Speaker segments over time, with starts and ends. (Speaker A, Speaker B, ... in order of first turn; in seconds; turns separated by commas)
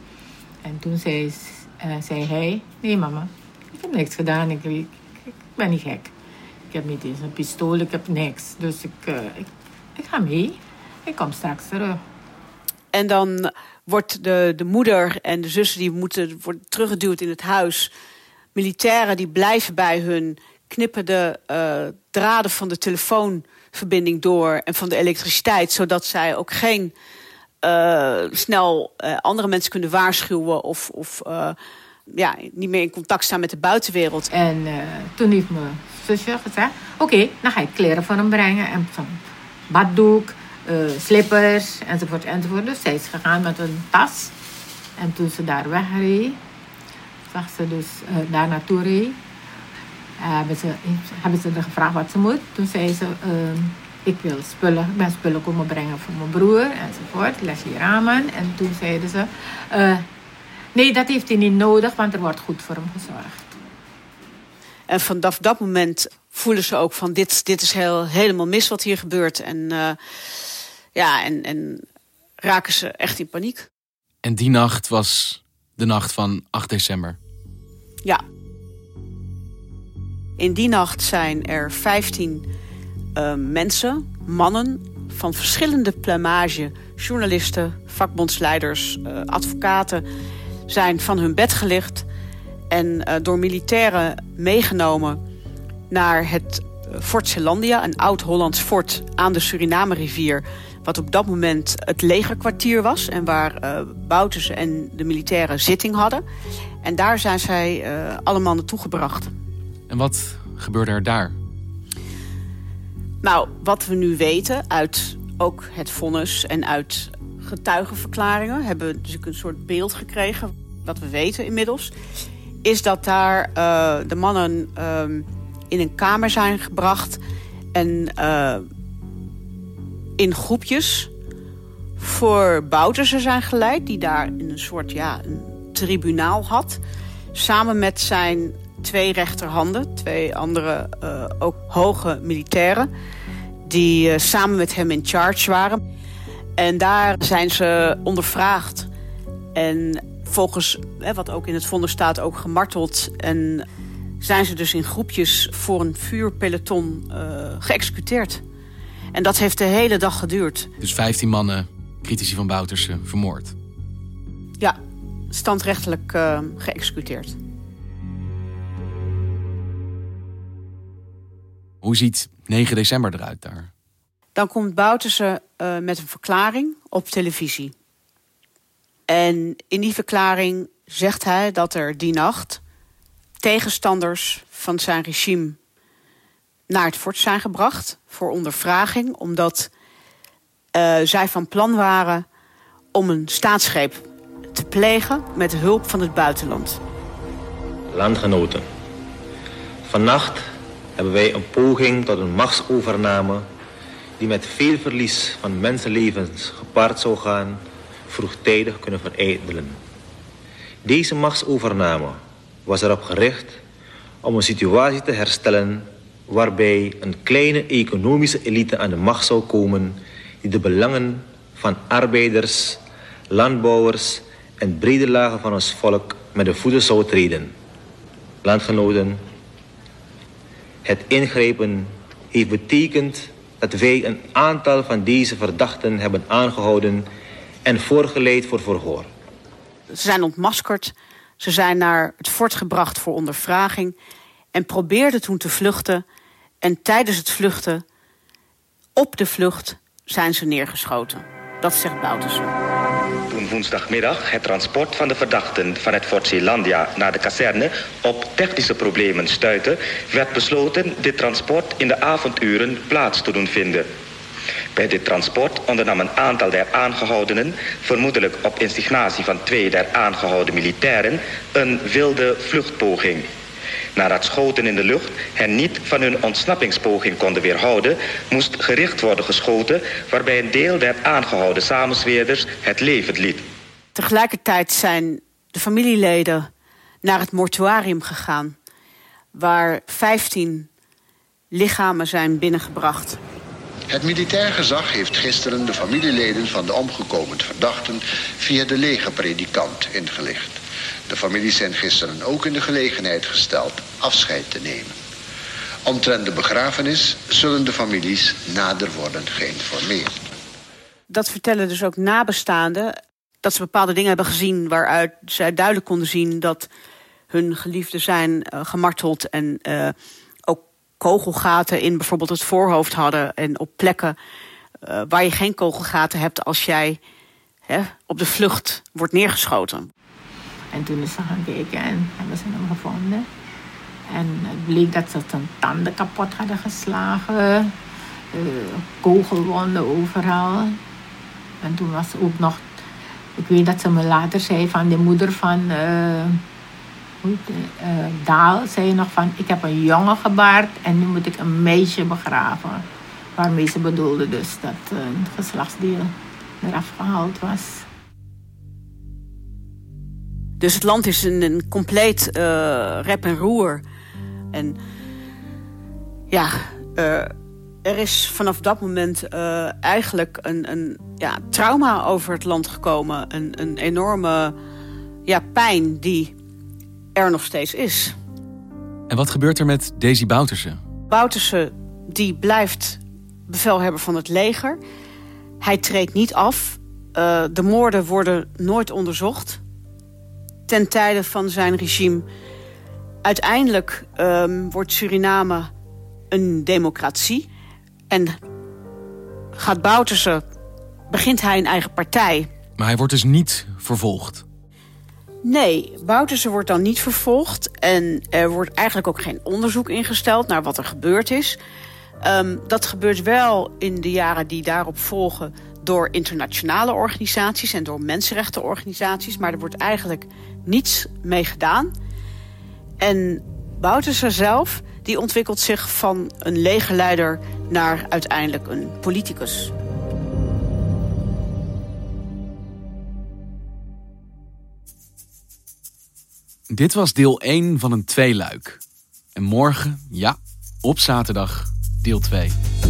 Speaker A: 0.6-6.1, Speaker A: 6.7-12.0, Speaker B: 12.9-17.9, Speaker B: 18.5-26.9, Speaker B: 27.6-31.6, Speaker B: 32.1-34.3, Speaker A: 34.3-44.3, Speaker A: 45.0-46.4, Speaker A: 47.3-49.2, Speaker A: 50.2-60.0, Speaker A: 60.7-63.5, Speaker B: 64.9-70.0, Speaker B: 70.9-71.8, Speaker B: 72.4-73.7, Speaker C: 74.2-77.2, Speaker B: 80.4-82.5, Speaker B: 83.2-90.0, Speaker B: 90.7-92.1, Speaker B: 92.7-95.2, Speaker B: 95.9-106.2, Speaker B: 106.8-109.3, Speaker C: 109.9-111.3, Speaker B: 113.2-121.9, Speaker B: 122.6-127.2, Speaker B: 127.7-128.6, Speaker B: 130.2-131.1, Speaker B: 132.0-136.8, Speaker B: 137.3-142.9, Speaker B: 143.7-145.8, Speaker B: 146.6-148.9, Speaker B: 149.5-153.6, Speaker B: 154.2-158.4, Speaker B: 159.1-160.7, Speaker C: 160.8-163.5, Speaker B: 165.3-167.4, Speaker C: 171.8-173.7, Speaker B: 174.3-177.7, Speaker B: 179.1-182.6, Speaker B: 183.4-185.6, Speaker B: 186.7-189.7, Speaker B: 190.7-192.2, Speaker B: 192.9-194.0, Speaker B: 194.5-196.8, Speaker D: 197.9-198.6, Speaker D: 199.8-200.4, Speaker D: 201.0-203.4, Speaker D: 204.2-209.8, Speaker D: 210.8-213.6, Speaker D: 214.2-227.5, Speaker D: 228.4-229.2, Speaker D: 230.8-237.1, Speaker D: 237.6-239.1, Speaker B: 239.9-243.9, Speaker B: 244.5-246.0, Speaker B: 246.6-247.8, Speaker B: 248.9-252.5, Speaker E: 253.3-263.9, Speaker E: 264.7-273.3, Speaker E: 273.9-283.4, Speaker B: 283.9-286.5, Speaker B: 287.0-288.5, Speaker B: 289.3-290.7, Speaker B: 291.5-293.2, Speaker F: 293.9-304.9, Speaker F: 305.9-310.2, Speaker B: 311.1-312.9, Speaker B: 313.4-316.7, Speaker B: 317.3-319.9, Speaker B: 320.5-324.1, Speaker B: 324.8-327.0, Speaker B: 327.7-329.9, Speaker A: 330.7-333.2, Speaker A: 334.1-337.7, Speaker A: 338.3-340.8, Speaker A: 341.6-342.6, Speaker A: 343.4-346.4, Speaker A: 347.2-352.8, Speaker A: 353.4-357.8, Speaker B: 360.6-363.8, Speaker B: 364.5-364.8, Speaker B: 366.3-367.3, Speaker B: 367.8-374.5, Speaker B: 375.3-376.3, Speaker B: 377.1-378.1, Speaker C: 379.1-380.8, Speaker B: 381.1-384.8, Speaker B: 385.6-389.6, Speaker B: 390.7-392.2, Speaker B: 393.2-395.7, Speaker B: 396.3-397.5, Speaker B: 398.1-398.4, Speaker B: 399.6-400.4, Speaker B: 401.1-402.5, Speaker C: 402.8-404.4, Speaker B: 405.4-411.6, Speaker B: 412.2-421.9, Speaker B: 423.0-429.7, Speaker C: 436.7-438.8, Speaker C: 439.3-442.6